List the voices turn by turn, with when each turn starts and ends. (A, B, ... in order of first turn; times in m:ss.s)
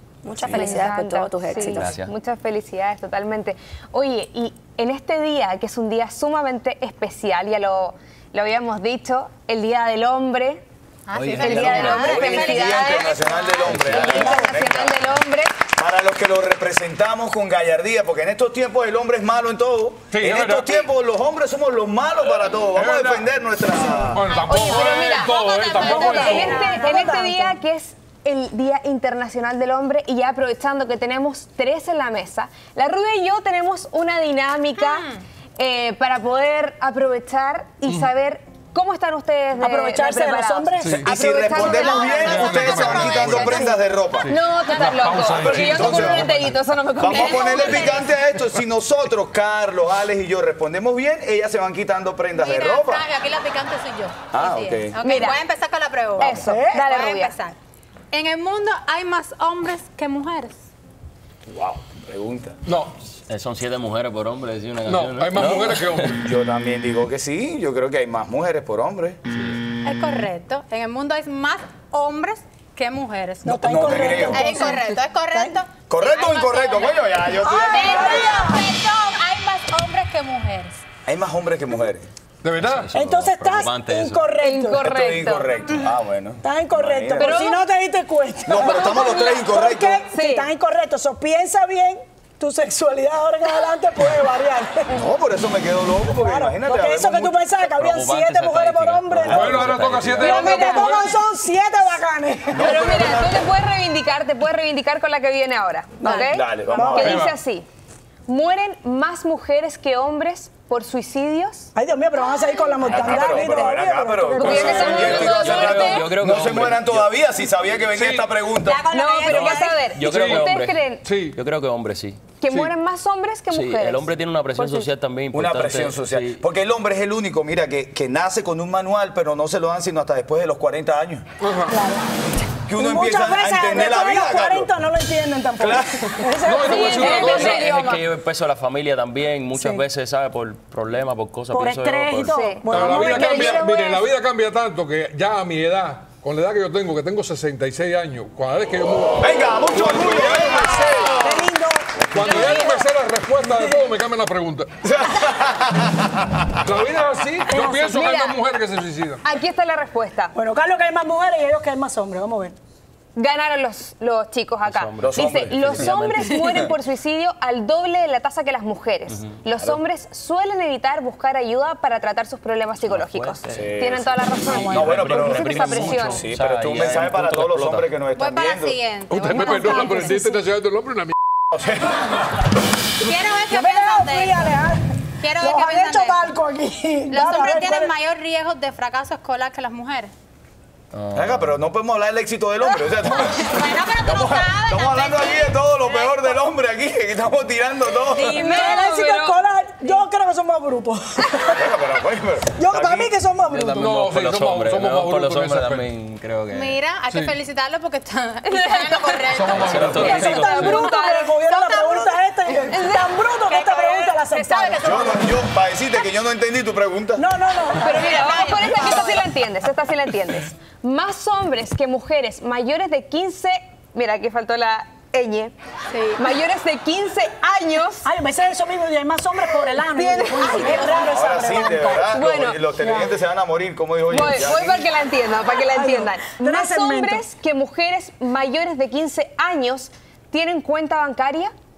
0:00.2-0:02.0 A
0:00.5-0:10.6 B
0:01.7-0:02.1 C
0:11.1-0:13.5 D
0:11.2-0:11.9 C
0:11.2-0:15.0 E
0:11.4-0:15.5 B
0:12.2-0:12.7 A
0:13.7-0:14.3 C
0:15.8-0:24.3 E
0:20.1-0:20.8 F
0:22.8-0:23.2 F
0:24.1-0:26.7 F
0:24.3-0:27.2 D
0:24.5-0:25.2 B
0:25.7-0:48.1 B
0:25.8-0:27.6 G
0:34.8-0:35.2 D
0:39.6-0:42.1 G
0:40.8-0:41.1 F
0:41.0-0:44.3 E
0:42.0-0:43.2 D
0:42.3-0:43.6 F
0:43.3-0:43.7 G
0:44.2-0:46.6 F
0:45.3-0:46.4 E
0:47.0-0:53.0 E
0:47.0-0:48.0 D
0:52.4-0:57.6 D
0:54.3-0:55.0 E
0:55.0-0:55.4 B
0:56.2-0:57.4 B
0:56.2-0:56.9 G
0:58.1-1:00.6 D
1:01.5-1:02.6 E
1:02.7-1:02.9 F
1:03.3-1:06.1 C
1:04.9-1:06.2 F
1:05.6-1:09.2 E
1:09.3-1:09.6 C
1:09.9-1:20.8 D
1:13.4-1:15.6 G
1:13.6-1:14.7 E
1:15.9-1:18.5 E
1:17.4-1:18.6 G
1:21.1-1:22.1 E
1:22.4-1:22.9 F
1:22.6-1:24.4 C
1:22.9-1:24.9 G
1:24.4-1:25.6 B
1:24.8-1:27.4 E
1:26.4-1:35.0 G
1:27.2-1:27.7 B
1:28.5-1:30.0 E
1:28.5-1:29.4 B
1:30.1-1:30.5 B
1:34.9-1:37.5 E
1:36.2-1:39.7 G
1:37.7-1:40.6 C
1:39.3-1:41.2 F
1:40.2-1:42.8 G
1:42.5-1:43.5 E
1:42.6-1:47.7 B
1:46.0-1:47.2 G
1:46.3-1:47.3 E
1:47.0-1:47.3 F
1:48.3-1:51.7 B
1:51.8-1:55.2 G
1:52.9-1:58.8 E
1:52.9-1:53.3 B
1:54.4-1:56.1 B
1:54.5-1:56.1 F
1:54.8-1:57.1 C
1:57.9-1:58.3 F
1:58.6-1:59.8 D
1:58.9-2:01.0 B
1:59.3-2:02.3 C
2:00.0-2:01.4 F
2:02.4-2:04.9 B
2:03.5-2:06.4 C
2:05.3-2:11.3 E
2:11.4-2:11.8 F
2:11.7-2:12.1 G
2:12.7-2:14.7 E
2:12.7-2:17.5 G
2:15.6-2:16.2 E
2:16.4-2:17.7 F
2:16.7-2:18.0 B
2:17.0-2:22.4 C
2:19.5-2:19.8 G
2:21.5-2:24.0 G
2:22.3-2:24.0 B
2:22.7-2:31.5 F
2:29.2-2:31.4 E
2:30.3-2:32.8 G
2:32.1-2:34.7 F
2:32.2-2:32.8 B
2:33.4-2:33.8 G
2:34.8-2:36.6 E
2:36.6-2:39.2 F
2:37.6-2:38.4 B
2:39.2-2:40.4 B
2:40.4-2:42.6 G
2:43.2-2:56.2 B
2:44.6-2:46.6 C
2:45.0-2:46.5 E
2:49.1-2:49.7 C
2:52.8-2:53.8 C
2:53.5-2:58.8 E
2:54.4-2:57.9 C
2:54.5-2:55.3 G
2:58.2-3:00.2 D
2:59.1-3:01.1 F
2:59.3-3:00.3 G
3:01.5-3:02.0 E
3:03.0-3:04.6 D
3:03.5-3:04.8 G
3:05.2-3:06.4 D
3:05.4-3:07.9 G
3:07.1-3:10.1 D
3:10.9-3:11.6 C
3:11.2-3:18.4 E
3:13.3-3:16.4 D
3:18.0-3:20.1 B
3:18.3-3:21.6 G
3:18.4-3:18.8 D
3:21.2-3:21.5 B
3:21.5-3:23.1 E
3:22.6-3:23.9 G
3:23.5-3:26.8 C
3:23.8-3:25.8 F
3:26.5-3:30.2 D
3:28.5-3:29.4 B
3:29.3-3:30.2 F
3:29.5-3:30.8 C
3:30.0-3:31.5 B
3:30.0-3:35.3 G
3:31.5-3:32.2 D
3:32.5-3:33.8 B
3:33.5-3:35.2 D
3:34.4-3:34.9 B
3:34.8-3:37.2 E
3:37.2-3:39.0 G
3:37.7-3:45.5 B
3:37.8-3:39.3 D
3:45.9-3:46.2 D
3:46.2-3:48.1 B
3:48.0-3:52.2 G
3:49.8-3:50.9 B
3:50.8-3:54.9 E
3:52.1-3:52.6 B
3:52.8-3:53.1 G
3:54.1-4:01.5 B
3:55.6-3:57.2 G